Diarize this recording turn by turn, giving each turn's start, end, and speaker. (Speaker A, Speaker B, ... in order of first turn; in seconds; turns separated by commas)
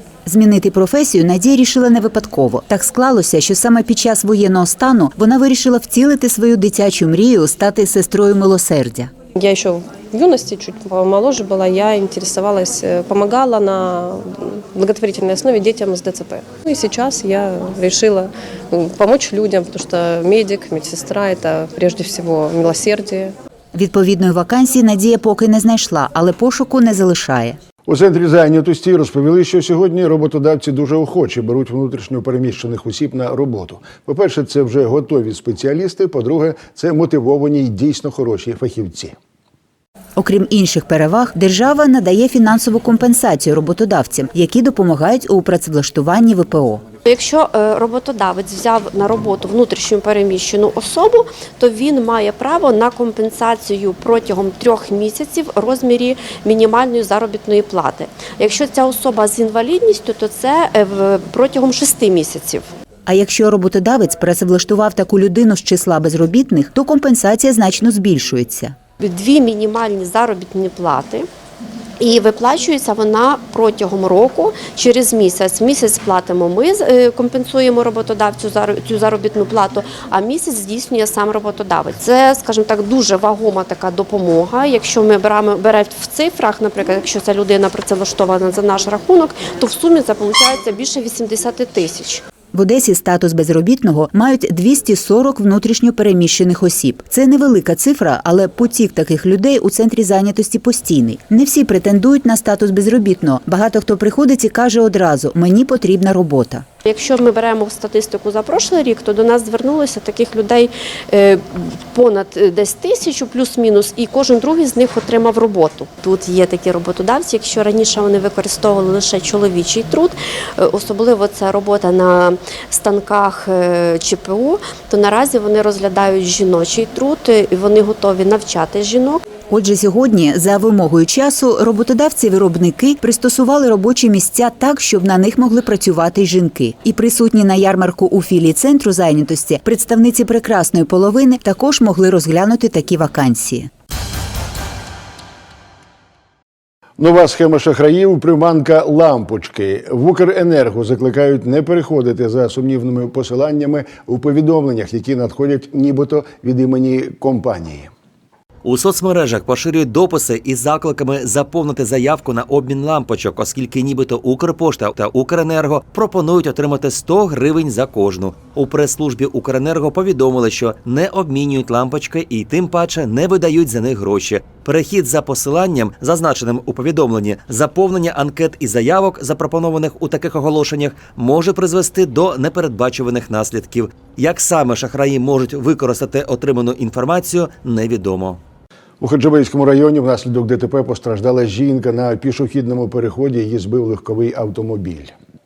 Speaker A: 0.3-9.1, Speaker B: 9.4-23.3, Speaker A: 23.7-27.6, Speaker C: 27.9-39.1, Speaker A: 40.2-46.8, Speaker D: 47.0-62.7, Speaker A: 63.1-68.8, Speaker D: 69.0-71.3, Speaker D: 72.0-92.2, Speaker A: 92.5-106.7, Speaker D: 106.8-129.2, Speaker A: 129.5-143.7, Speaker C: 147.0-157.9, Speaker E: 158.6-188.4, Speaker C: 189.0-195.1